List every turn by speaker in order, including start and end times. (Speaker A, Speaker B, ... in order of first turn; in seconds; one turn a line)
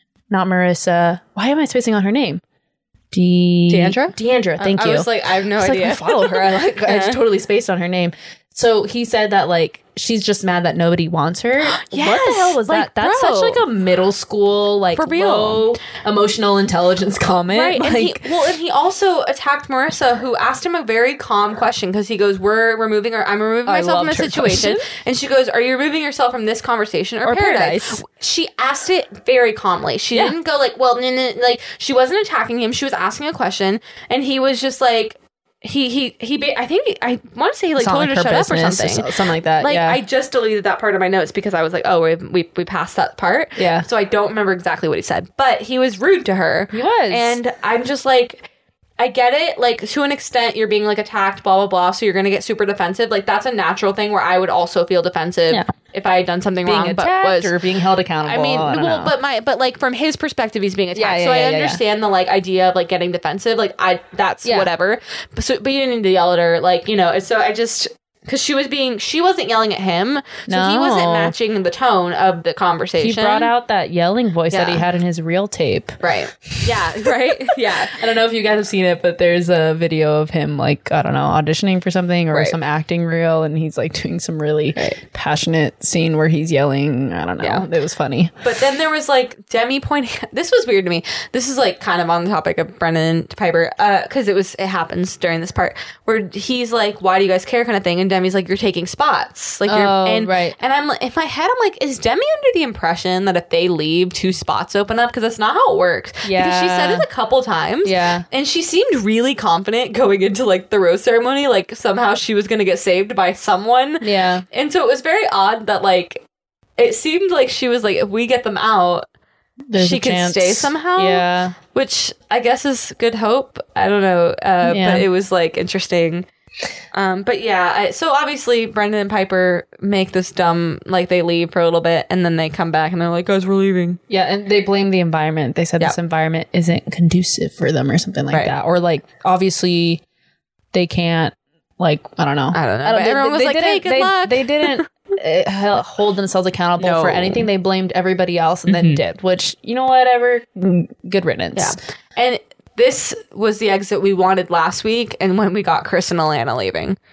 Speaker A: 0.3-2.4
Speaker A: 3.1-18.3
Speaker B: 3.7-7.2
Speaker B: 11.7-13.6
Speaker B: 15.0-15.7
Speaker B: 17.5-39.1
Speaker A: 23.7-24.9
Speaker A: 27.2-28.0
Speaker A: 37.8-40.0
Speaker B: 39.6-48.4
Speaker A: 43.6-43.9
Speaker A: 46.7-47.4
Speaker B: 49.0-57.5
Speaker A: 56.6-59.1
Speaker B: 58.2-73.5
Speaker A: 61.0-61.8
Speaker A: 64.5-64.7
Speaker A: 70.5-71.3
Speaker A: 73.0-88.4
Speaker B: 74.5-74.8
Speaker B: 76.0-78.0
Speaker B: 82.3-82.6
Speaker B: 87.4-87.7
Speaker B: 88.4-116.2
Speaker A: 99.7-100.6
Speaker A: 106.2-107.1
Speaker A: 107.8-108.3
Speaker A: 114.0-114.5
Speaker B: 116.8-119.0
Speaker A: 119.7-121.6
Speaker B: 119.8-126.3
Speaker A: 124.6-125.1
Speaker B: 126.9-134.0
Speaker A: 134.1-140.0
Speaker A: 140.7-151.8
Speaker B: 142.5-144.9
Speaker B: 146.8-147.5
Speaker B: 148.7-149.0
Speaker B: 151.6-157.0